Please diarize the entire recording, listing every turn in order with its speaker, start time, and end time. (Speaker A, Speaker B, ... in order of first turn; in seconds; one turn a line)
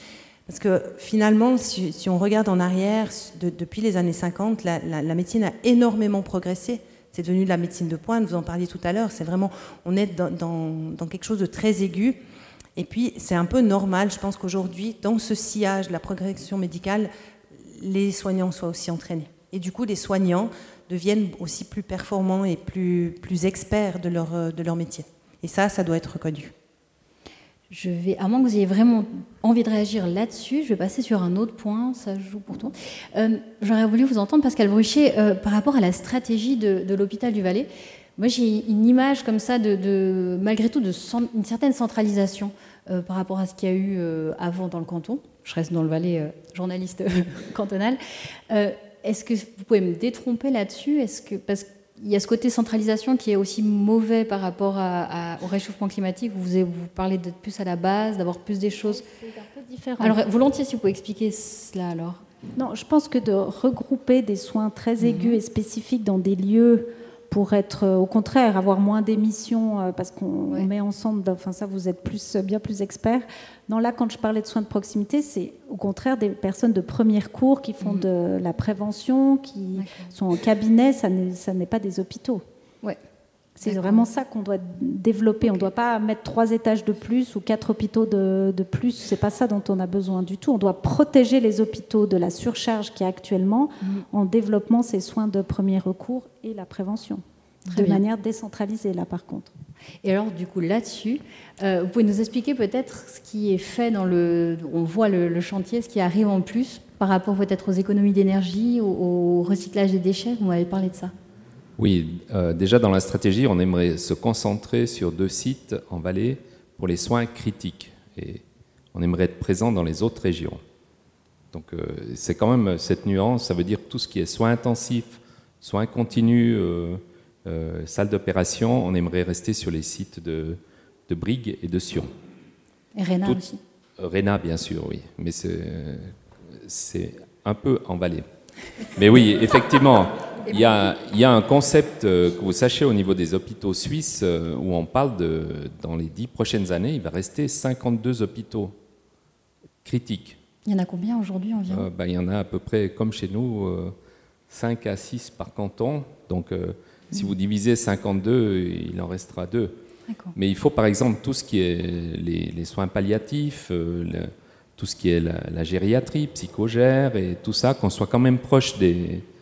Speaker A: 0.5-12.2
Speaker A: 12.8-26.5
Speaker B: 27.7-59.0
Speaker C: 59.1-60.2
Speaker B: 60.0-62.2
Speaker C: 62.6-82.4
Speaker B: 65.0-65.4
Speaker B: 77.8-78.0
Speaker B: 79.7-80.1
Speaker C: 83.6-99.5
Speaker B: 83.6-84.1
Speaker B: 85.4-85.7
Speaker B: 97.7-98.0
Speaker B: 100.0-111.1
Speaker D: 111.8-118.4
Speaker D: 118.9-120.6
Speaker D: 121.5-132.1
Speaker B: 132.9-133.6
Speaker D: 134.0-138.2
Speaker D: 138.9-148.7
Speaker D: 149.8-150.4
Speaker B: 150.6-151.9
Speaker D: 151.7-153.9
Speaker D: 154.5-159.8
Speaker B: 160.1-160.3
Speaker D: 160.3-169.2